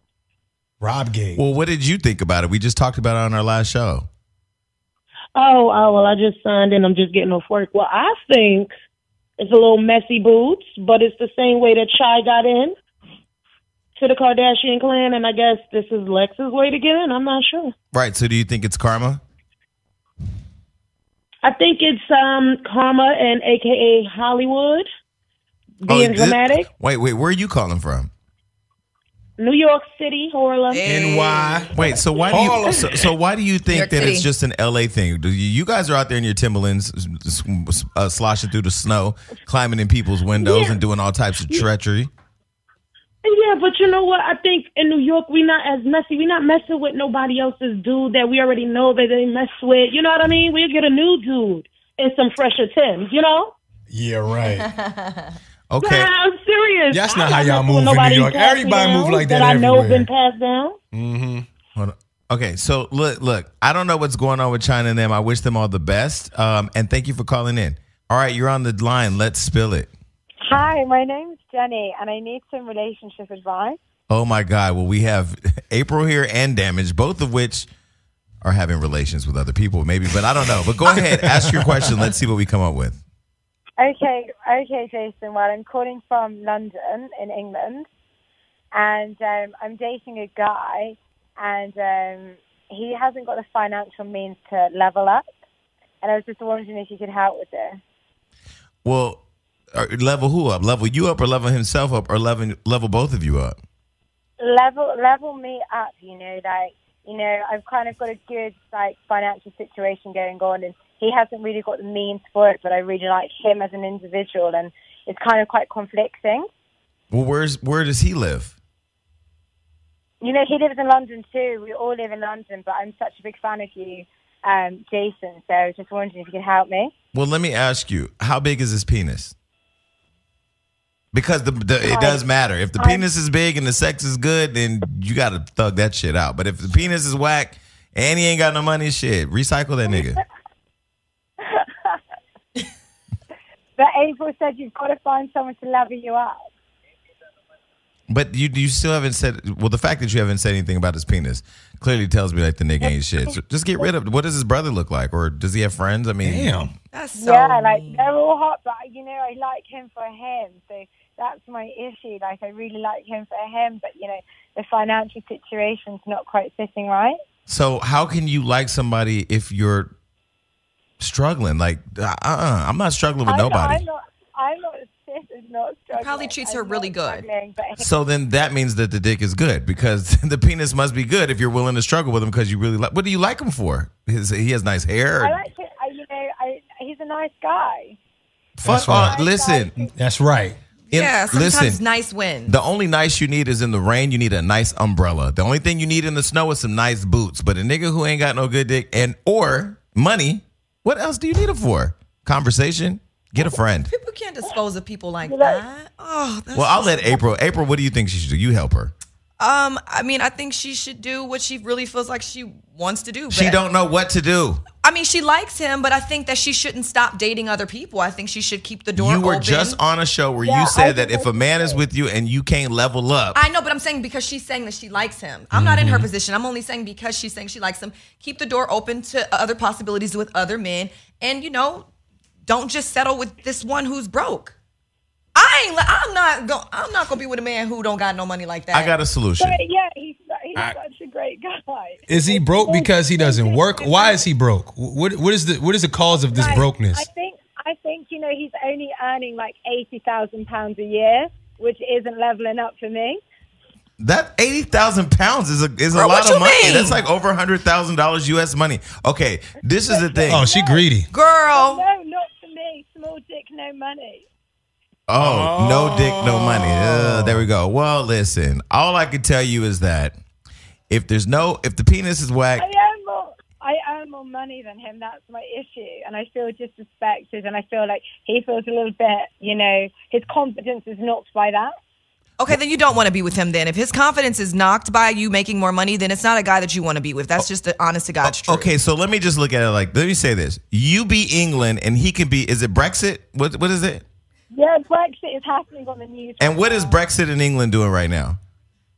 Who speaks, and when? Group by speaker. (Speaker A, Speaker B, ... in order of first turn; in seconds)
Speaker A: 0.8-1.4, 30.8-31.7, 32.3-33.0, 53.9-54.7, 56.9-60.1, 60.9-61.5, 80.8-82.0, 156.2-156.7, 188.6-189.2, 190.0-190.6, 225.5-226.1, 242.1-247.1, 260.3-261.1, 265.2-267.5
Speaker B: 1.4-4.1, 17.9-19.2, 25.9-28.1, 31.7-42.1, 55.7-56.1, 61.8-69.9, 74.1-77.7, 78.4-83.0, 98.8-99.2, 99.7-103.6, 117.1-118.5, 127.1-129.3, 131.1-140.2, 148.1-156.6, 167.5-169.9, 171.0-173.8, 177.8-185.4, 188.6-189.8, 190.9-191.8, 192.5-203.9, 206.5-208.9, 213.3-214.6, 219.0-223.4, 238.7-239.6, 254.0-260.5, 265.1-270.1, 270.9-272.7, 288.2-294.0, 296.4-298.4
Speaker C: 5.3-8.7, 9.4-12.8, 14.0-17.7, 21.4-24.9, 25.8-26.7, 29.4-30.9, 40.4-40.8, 43.2-53.5, 55.8-60.8
Speaker D: 30.7-31.7, 33.7-34.3, 54.6-55.3, 156.9-158.1, 176.0-177.2, 190.9-192.6, 203.9-207.3, 209.4-213.6, 214.8-219.8, 223.3-231.9, 232.5-234.6, 235.3-238.9, 255.9-257.0, 261.1-261.8, 282.4-288.7
Speaker E: 70.5-73.8, 83.8-87.9, 88.7-95.3, 96.0-97.8, 104.4-116.5, 120.2-126.9, 131.8-132.2, 132.8-133.1, 139.9-140.2, 141.4-142.0, 143.8-146.5, 157.2-167.2, 173.3-177.8, 185.2-188.0, 188.8-189.9, 205.3-205.6, 220.4-221.8, 239.4-244.2, 246.1-253.2, 259.9-260.8, 261.5-264.2, 272.6-281.7, 294.5-297.0